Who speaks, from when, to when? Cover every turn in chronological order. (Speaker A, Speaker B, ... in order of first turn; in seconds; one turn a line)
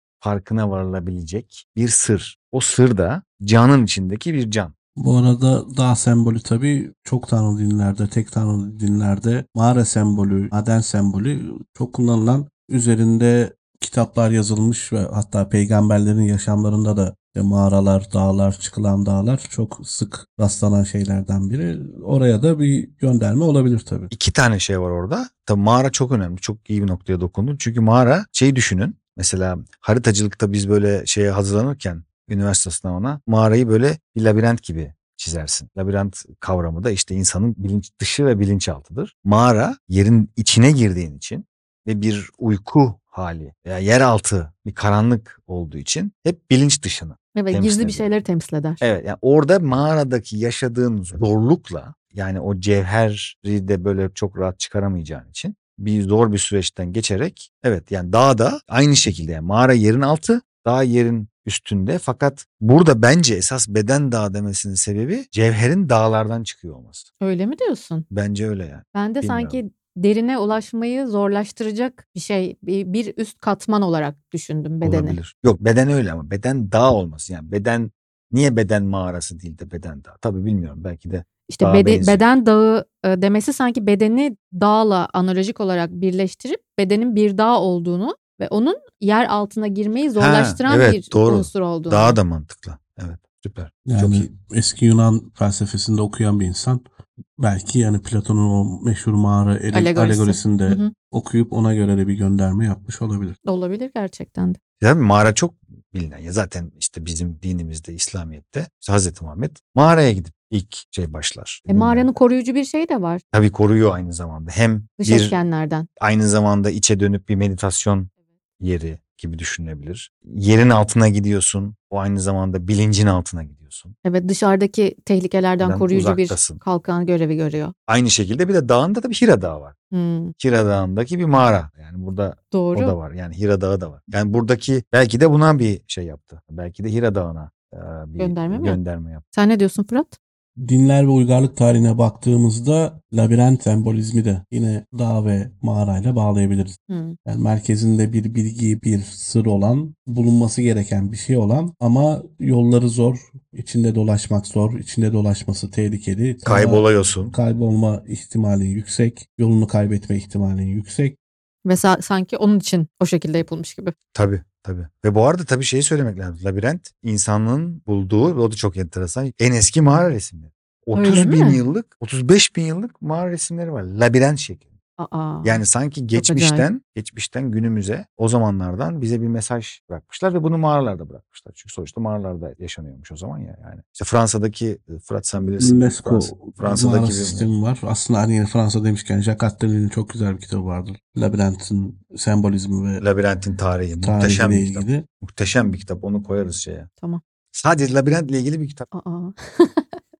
Speaker A: 0.2-4.7
Speaker B: 5.0-24.1
Speaker A: 24.1-48.1
Speaker C: 47.4-48.8
Speaker A: 48.8-67.1
Speaker C: 67.2-68.0
Speaker A: 68.1-69.6
Speaker C: 69.0-75.2
Speaker A: 74.8-82.2
Speaker C: 81.5-92.2
Speaker A: 90.2-94.3
Speaker B: 93.9-96.8
Speaker B: 97.4-103.4
Speaker C: 99.7-100.9
Speaker C: 103.5-104.6
Speaker A: 104.8-112.1
Speaker C: 111.7-113.2
Speaker A: 113.3-115.4
Speaker C: 115.0-115.9
Speaker A: 116.0-124.0
Speaker C: 124.0-127.7
Speaker A: 125.6-126.6
Speaker A: 127.9-129.8
Speaker C: 129.9-130.3
Speaker A: 130.4-139.2
Speaker C: 132.5-133.0
Speaker C: 138.2-138.8
Speaker C: 139.3-140.2
Speaker B: 140.6-161.2
Speaker C: 146.9-147.2
Speaker A: 156.4-157.3
Speaker C: 161.7-163.9
Speaker A: 164.1-174.7
Speaker C: 170.9-171.6
Speaker C: 175.0-175.6
Speaker A: 175.4-187.5
Speaker C: 176.1-176.7
Speaker B: 185.6-193.0
Speaker A: 193.0-196.9
Speaker B: 194.0-195.1
Speaker A: 197.5-198.9
Speaker C: 198.9-200.0